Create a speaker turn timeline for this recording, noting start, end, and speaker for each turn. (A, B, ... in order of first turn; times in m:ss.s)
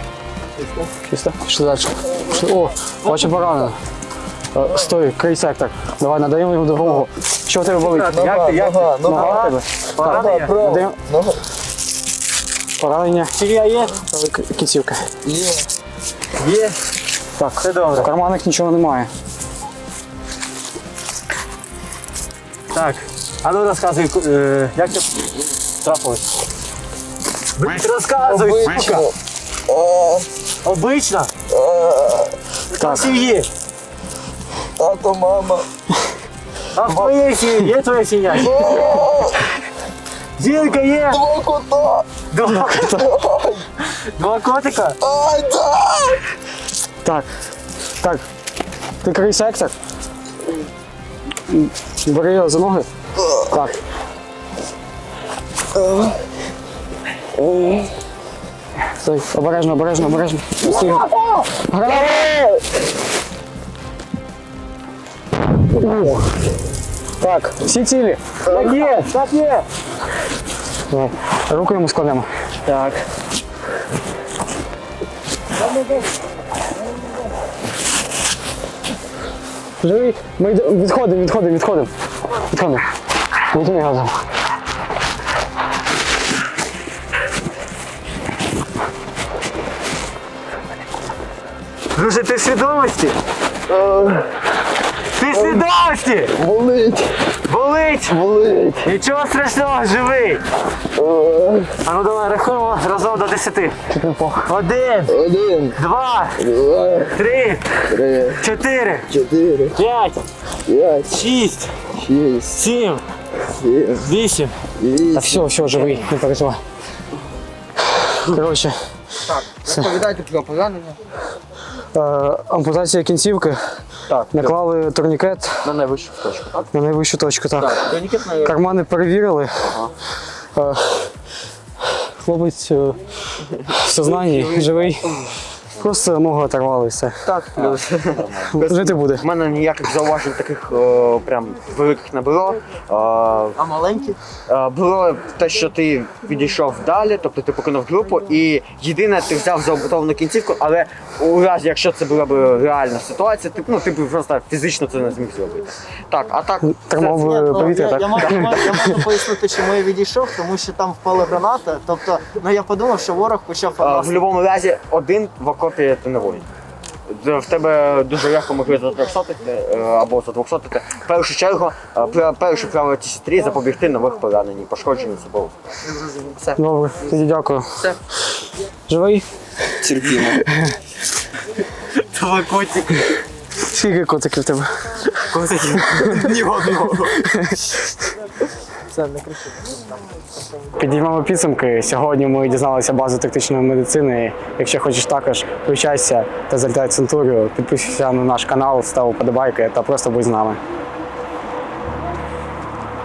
0:01.0-0:03.8 A
0:04.5-0:08.2 A
0:07.8-0:10.5 B
0:08.1-0:09.3 C
0:09.0-0:09.6 A
0:10.1-0:11.4 C
0:10.5-0:11.0 A
0:12.8-0:13.3 A
0:13.4-0:13.9 B
0:14.0-0:15.0 A
0:15.3-0:15.6 C
0:16.4-0:16.7 B
0:17.4-0:19.1 A
0:17.6-0:17.9 B
0:22.7-0:25.2 B
0:25.8-0:26.2 B
0:27.6-0:29.1 B
0:28.3-0:29.1 C
0:29.7-0:30.2 C
0:30.6-0:31.3 B
0:31.5-0:32.3 C
0:32.7-0:33.5 B
0:32.7-0:33.1 A
0:34.8-0:35.6 C
0:36.7-0:39.1 B
0:38.6-0:39.2 C
0:40.4-0:41.2 B
0:41.2-0:42.1 C
0:42.2-0:43.0 B
0:42.4-0:43.0 A
0:43.1-0:43.6 C
0:43.9-0:45.0 B
0:45.0-0:46.2 C
0:48.0-0:48.2 A
0:49.0-0:49.7 A
0:51.5-0:52.9 A
0:53.4-0:53.8 A
0:57.4-0:57.9 D
0:59.0-1:02.2 A
1:00.7-1:01.3 D
1:01.8-1:02.6 D
1:05.8-1:06.2 A
1:07.2-1:08.4 A
1:08.5-1:09.0 D
1:08.5-1:09.6 B
1:10.9-1:12.3 A
1:12.7-1:12.9 B
1:19.8-1:22.9 A
1:23.5-1:24.2 A
1:31.9-1:33.1 B
1:33.9-1:34.1 C
1:35.2-1:36.4 B
1:36.4-1:37.1 C
1:37.5-1:38.2 B
1:38.3-1:38.7 C
1:38.8-1:40.4 B
1:41.0-1:41.8 C
1:41.8-1:43.8 B
1:43.9-1:44.5 A
1:44.4-1:45.2 B
1:45.2-1:45.8 C
1:45.8-1:46.5 B
1:46.5-1:47.1 C
1:47.1-1:47.9 B
1:48.0-1:48.4 C
1:48.4-1:49.1 B
1:49.1-1:49.8 C
1:49.8-1:50.2 B
1:50.7-1:51.2 C
1:51.0-1:51.9 B
1:52.0-1:52.6 C
1:52.6-1:53.0 B
1:53.6-1:54.0 C
1:54.0-1:54.5 B
1:54.8-1:55.3 C
1:55.1-1:56.6 A
1:58.2-1:58.8 A
1:59.2-2:01.0 D
2:01.9-2:03.8 A
2:04.1-2:04.5 D
2:04.3-2:05.7 A
2:05.6-2:06.7 D
2:06.7-2:09.7 A
2:07.6-2:08.7 D
2:10.5-2:11.1 A
2:12.2-2:13.0 A
2:13.7-2:17.2 A
2:14.0-2:15.3 E
2:17.2-2:23.6 D
2:18.4-2:19.2 A
2:23.6-2:24.2 E
2:24.5-2:39.2 D
2:36.6-2:39.1 A
2:37.3-2:44.1 E
2:43.8-2:46.4 D
2:47.1-2:55.5 D
2:56.1-2:56.6 D
2:56.6-2:57.7 A
2:58.9-3:00.7 A
2:59.8-3:00.4 D
3:02.0-3:03.1 D
3:03.6-3:04.8 A
3:05.2-3:07.2 D
3:07.2-3:07.8 A
3:08.9-3:09.5 E
3:10.7-3:20.6 A